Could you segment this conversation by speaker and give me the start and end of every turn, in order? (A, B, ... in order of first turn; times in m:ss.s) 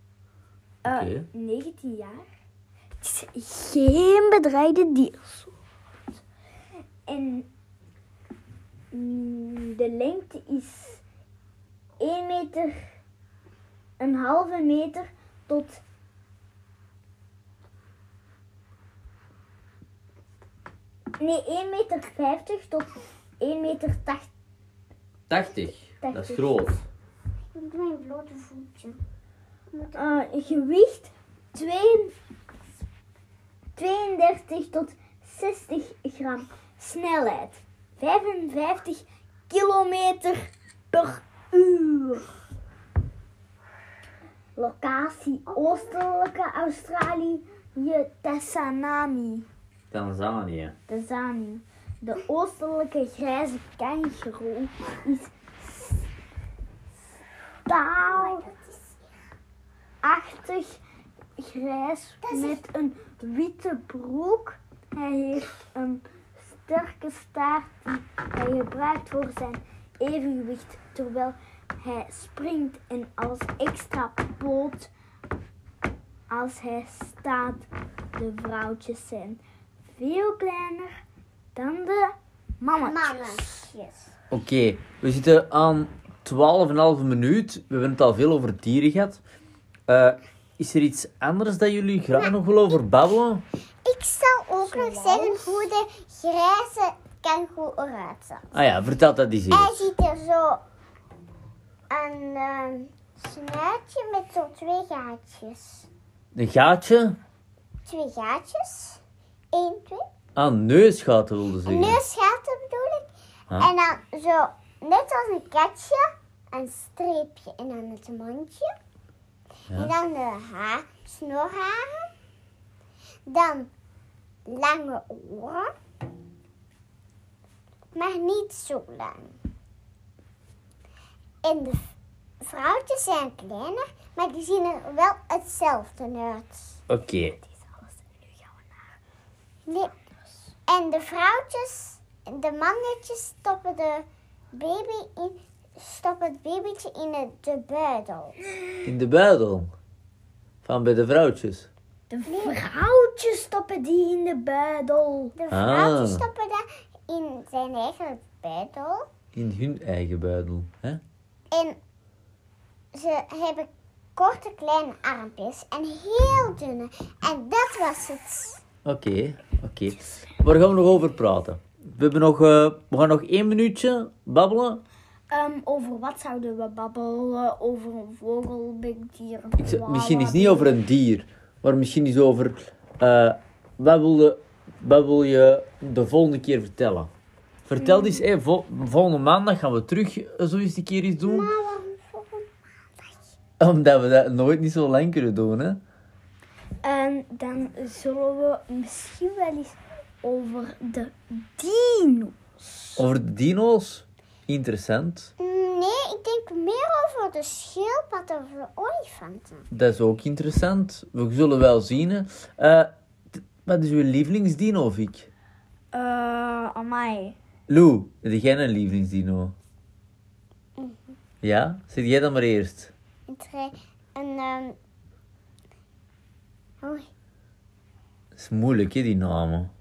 0:00.8-0:01.3 A
0:00.8-0:02.3 B
0:03.0-0:05.6 B
0:07.1-0:07.5 B
0:08.9-0:11.0 B
0:12.0-0:12.8 B
0:14.0-0:15.8 B
0:21.2-0:24.3 B
0:25.3-0:26.8 A
0:26.0-0:26.8 B
0:27.5-0:29.0 C
0:29.7-0:30.1 C
0:29.9-0:32.1 B
0:33.8-0:42.3 B
0:44.6-0:49.5 B
0:45.5-0:45.9 C
0:49.9-0:50.8 A
0:50.9-0:56.1 B
0:57.7-0:58.4 B
0:58.0-0:59.0 C
1:00.0-1:00.8 B
1:01.4-1:14.9 B
1:02.2-1:02.6 C
1:16.3-1:19.4 B
1:20.0-1:20.9 B
1:21.5-1:23.7 B
1:22.8-1:24.0 C
1:24.3-1:29.2 A
1:29.9-1:33.4 A
1:33.8-1:38.6 C
1:34.6-1:35.7 B
1:38.5-1:39.9 A
1:39.5-1:40.6 C
1:41.9-1:45.9 C
1:46.3-1:47.2 A
1:47.8-1:49.0 C
1:49.5-1:50.0 C
1:50.4-1:52.0 A
1:51.6-1:58.7 C
1:59.7-2:02.1 C
2:03.3-2:03.7 C
2:04.5-2:05.7 C
2:07.9-2:09.3 C
2:11.4-2:11.8 C
2:12.4-2:16.8 C
2:16.9-2:17.4 A
2:17.4-2:18.8 B
2:19.7-2:19.9 C
2:20.7-2:28.4 C
2:28.8-2:29.7 A
2:30.6-2:31.7 A
2:32.1-2:35.3 B
2:32.3-2:32.6 C
2:35.4-2:39.0 C
2:35.5-2:36.2 A
2:39.3-2:41.0 A
2:41.5-2:41.8 C
2:42.9-2:48.6 C
2:48.8-2:54.8 A
2:55.3-3:00.8 B
2:59.6-3:07.1 A
3:07.6-3:11.5 A
3:11.2-3:13.3 C
3:13.6-3:15.8 A
3:16.8-3:23.0 B
3:23.0-3:25.3 A
3:25.4-3:29.7 C
3:29.7-3:35.3 A
3:35.9-3:37.4 B
3:37.7-3:39.5 A
3:40.8-3:41.1 C
3:41.4-3:42.9 A
3:43.3-3:44.8 C
3:46.8-3:47.1 C
3:48.3-3:49.7 A